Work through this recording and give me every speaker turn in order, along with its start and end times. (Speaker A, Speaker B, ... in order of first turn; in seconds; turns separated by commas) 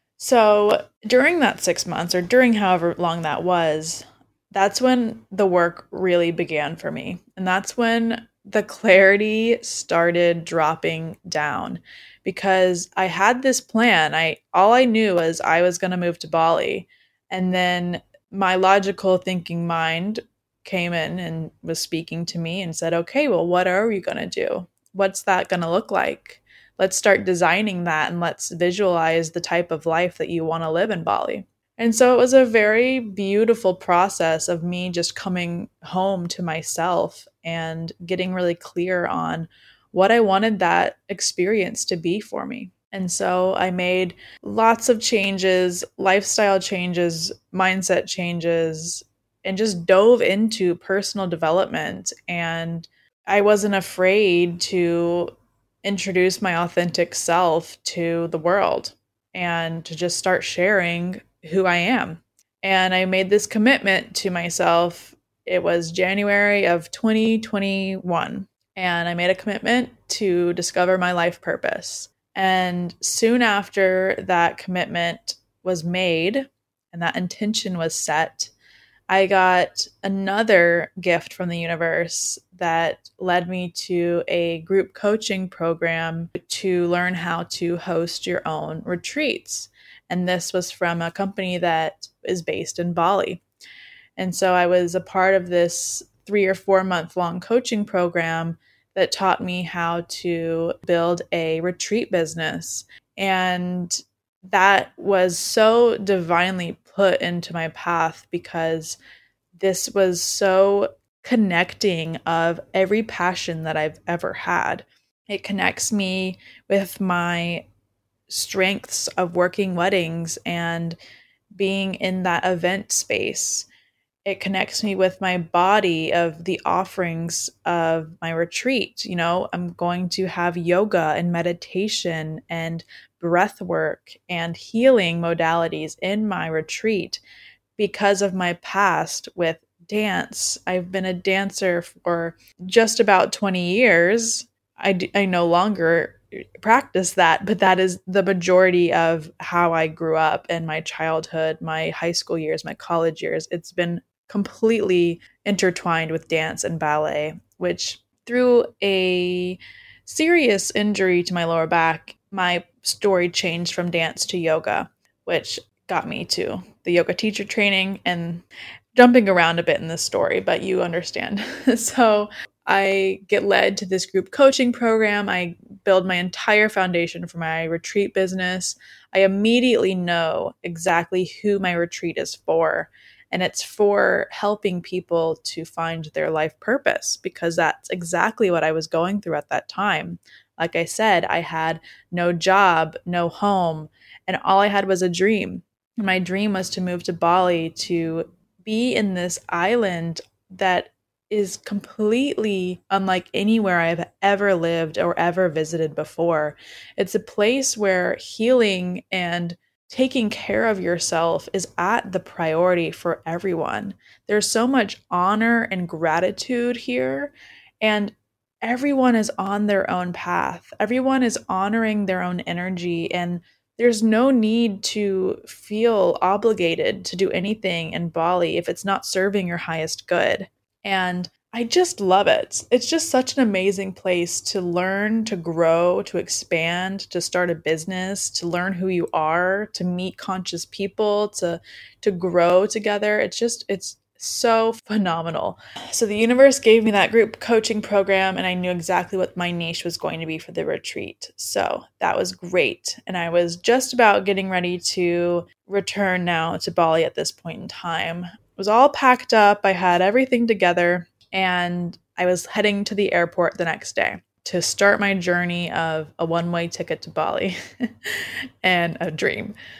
Speaker A: 0.2-78.5, Speaker A: 79.1-93.4, Speaker A: 94.2-104.0, Speaker A: 104.5-109.0, Speaker A: 109.5-117.6, Speaker A: 118.3-121.0, Speaker A: 121.5-123.7, Speaker A: 124.2-137.2, Speaker A: 137.8-267.6, Speaker A: 268.6-269.5